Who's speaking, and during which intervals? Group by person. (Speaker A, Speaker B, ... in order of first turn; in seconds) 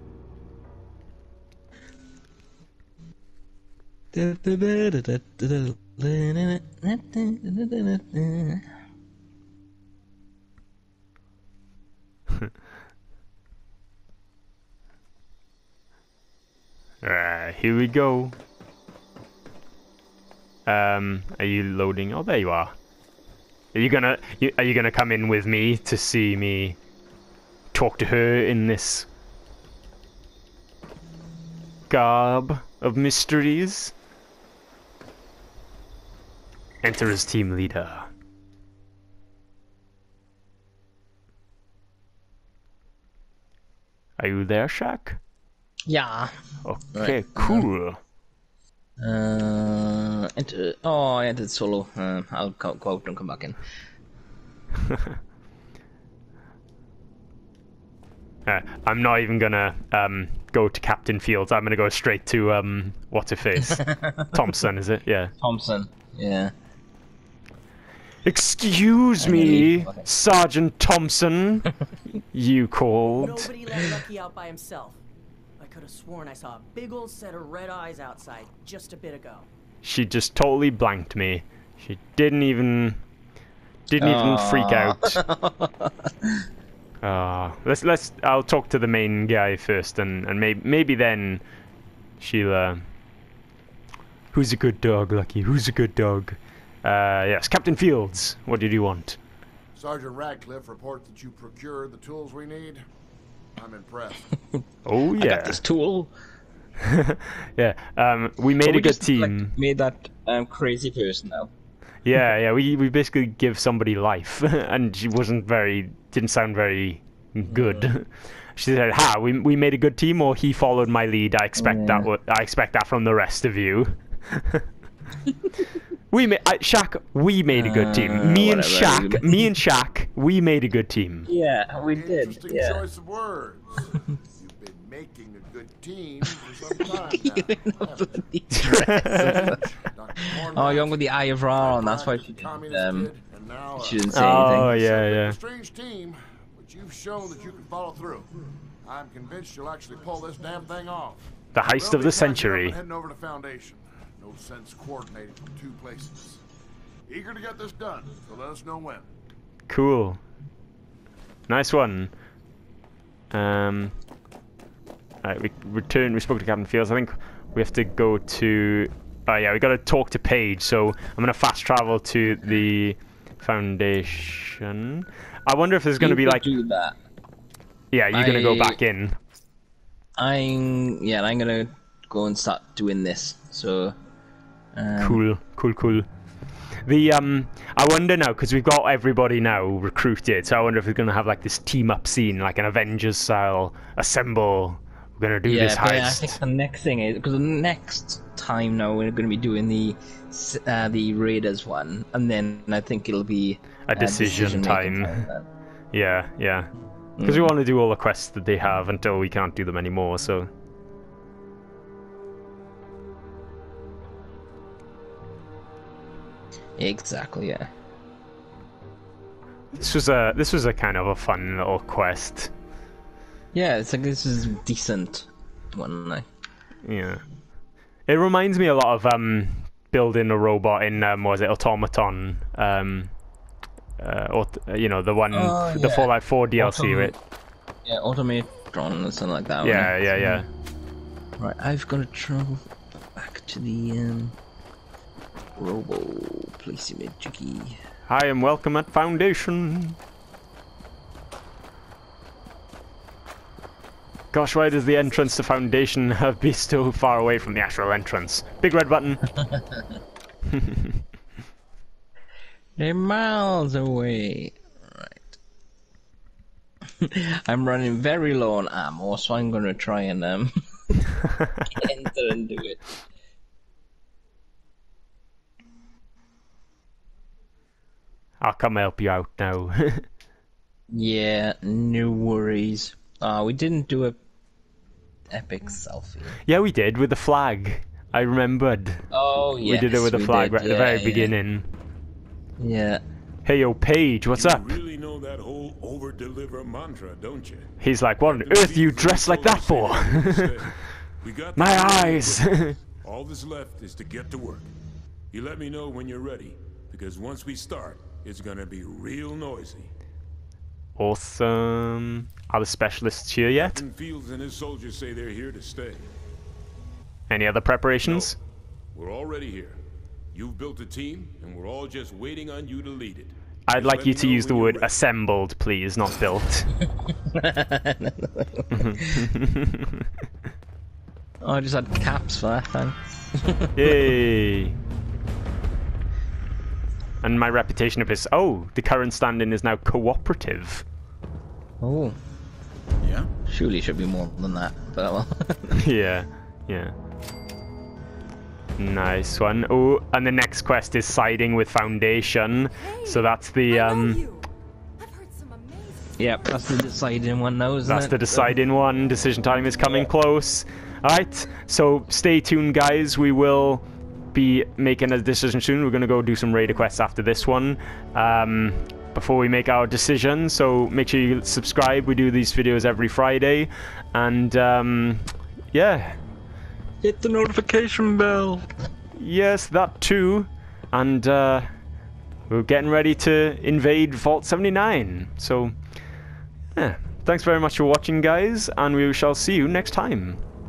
Speaker A: 4.1-8.7, 45.9-46.3, 46.9-47.7, 49.0-53.6, 63.6-64.4, 65.4-66.5, 69.2-70.0, 73.3-74.0, 84.0-86.5, 105.2-106.1, 108.6-111.5, 117.5-117.9, 121.6-122.1, 127.5-129.5, 131.2-132.8, 136.2-139.6, 140.2-143.1, 143.8-144.7, 176.0-176.9, 178.1-178.8, 180.2-183.9, 184.7-185.2, 195.4-205.5, 207.2-207.5, 216.8-217.7, 223.5-226.2, 235.3-237.1, 237.8-240.4, 241.4-242.6, 243.1-244.3, 245.6-247.8, 259.4-259.8, 262.8-265.3, 267.0-271.1, 271.7-272.9, 280.9-284.2, 285.3-286.4, 289.1-291.3, 292.6-293.0, 327.1-329.3, 331.4-334.1, 341.8-342.2, 343.5-345.8, 356.2-358.6, 359.8-360.1, 377.0-378.7
Speaker B: 17.0-18.4, 20.6-22.7, 23.7-26.8, 27.7-29.1, 31.9-33.9, 36.8-38.1, 44.2-45.2, 46.6-48.0, 54.9-55.1, 58.5-65.3, 68.2-71.7, 72.3-73.5, 79.8-83.0, 83.9-85.2, 87.0-91.4, 92.2-92.8, 94.3-99.2, 104.8-105.6, 106.8-109.5, 112.0-124.6, 126.1-131.3, 138.5-139.5, 144.1-145.4, 151.5-152.8, 159.7-160.2, 161.5-162.1, 163.3-163.9, 165.2-176.5, 177.9-179.1, 185.0-186.1, 186.8-196.4, 203.9-205.2, 205.9-206.7, 207.2-210.5, 219.7-222.5, 226.8-227.2, 228.1-233.1, 234.0-237.1, 239.6-240.5, 248.1-250.0, 254.3-259.2, 260.5-260.9, 278.4-280.1, 286.4-289.0, 289.6-291.6, 293.4-294.7, 297.8-300.5, 301.6-302.8, 311.0-313.8, 317.3-318.4, 323.7-326.7, 328.7-330.1, 333.7-334.7, 337.2-340.8, 345.8-346.9, 348.8-354.2, 357.8-376.2, 379.1-381.7, 382.5-385.7, 386.7-390.4
Speaker C: 73.2-75.0, 75.6-79.5
Speaker D: 99.7-102.8, 103.5-104.4, 131.9-138.2, 139.0-148.3, 148.8-156.4, 157.1-159.1
Speaker E: 294.3-297.7, 298.2-302.4, 303.0-304.7, 305.3-309.9, 313.5-316.1, 318.0-318.3, 318.9-319.8, 320.3-324.9, 343.0-343.3
Speaker F: 352.8-356.9